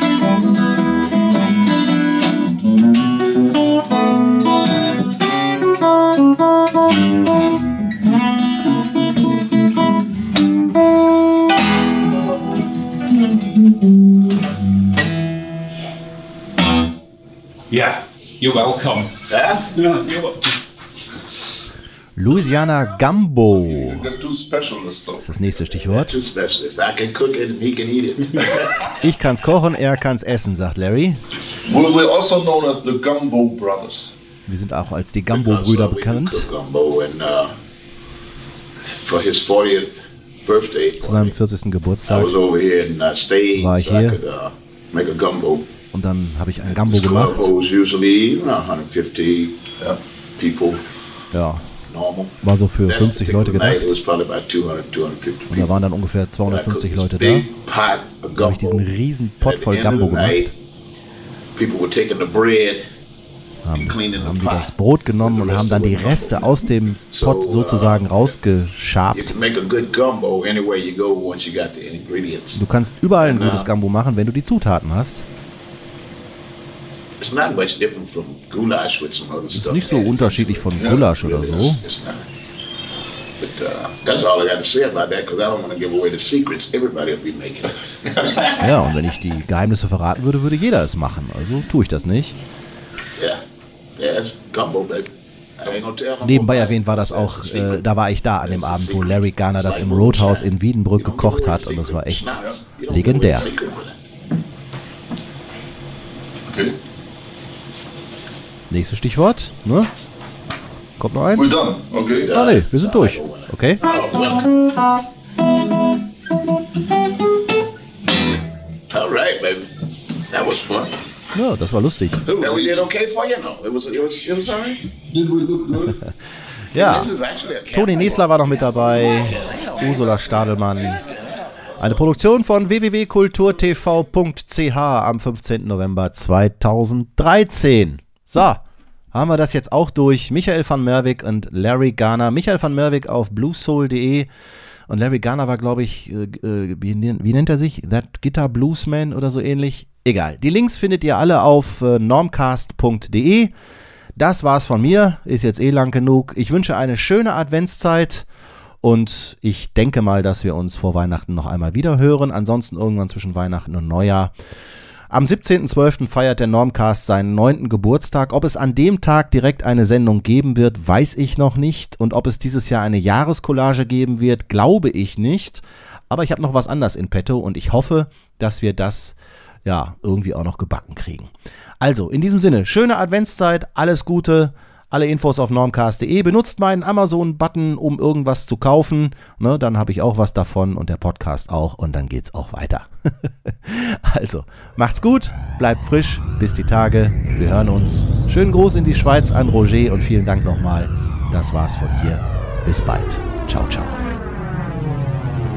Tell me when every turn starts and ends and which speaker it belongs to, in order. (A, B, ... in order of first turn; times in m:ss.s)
0:17.7-0:19.1 A
0:19.3-0:19.7 B
0:19.7-0:20.3 A
0:22.2-0:24.1 C
0:23.4-0:25.3 D
0:25.2-0:26.2 C
0:25.6-0:28.8 B
0:29.0-0:31.2 C
0:31.6-0:34.1 D
0:34.5-0:36.5 C
0:35.3-0:37.5 B
0:39.0-0:41.4 B
0:41.0-0:42.3 C
0:42.0-0:45.7 B
0:43.5-0:44.2 C
0:45.9-0:47.5 C
0:46.6-0:49.6 B
0:50.4-0:50.8 B
0:51.3-0:51.7 C
0:51.8-0:55.7 B
0:52.4-0:54.0 C
0:55.5-0:57.5 C
0:56.4-0:58.9 B
0:58.3-1:00.5 C
0:59.4-1:00.5 B
1:01.5-1:02.8 B
1:03.6-1:09.4 C
1:03.7-1:08.3 B
1:09.1-1:12.6 B
1:12.5-1:15.2 C
1:13.2-1:13.7 B
1:17.2-1:22.2 B
1:19.5-1:21.8 C
1:20.8-1:21.0 D
1:23.4-1:28.5 B
1:28.5-1:32.4 C
1:34.0-1:37.8 B
1:36.2-1:43.5 C
1:38.4-1:44.0 B
1:42.3-1:42.6 D
1:46.4-1:46.8 D
1:48.7-1:49.9 C
1:51.0-1:51.6 C
1:51.3-1:52.3 D
1:52.2-1:54.5 B
1:52.2-1:53.8 C
1:58.9-1:59.7 B
2:00.3-2:00.9 B
2:01.3-2:02.2 C
2:02.2-2:04.8 B
2:02.4-2:02.8 D
2:05.0-2:06.0 D
2:06.7-2:07.1 C
2:06.7-2:10.0 B
2:07.7-2:11.0 C
2:11.8-2:24.3 C
2:24.9-2:33.5 C
2:34.2-2:38.2 C
2:38.8-2:44.3 C
2:45.1-3:24.0 C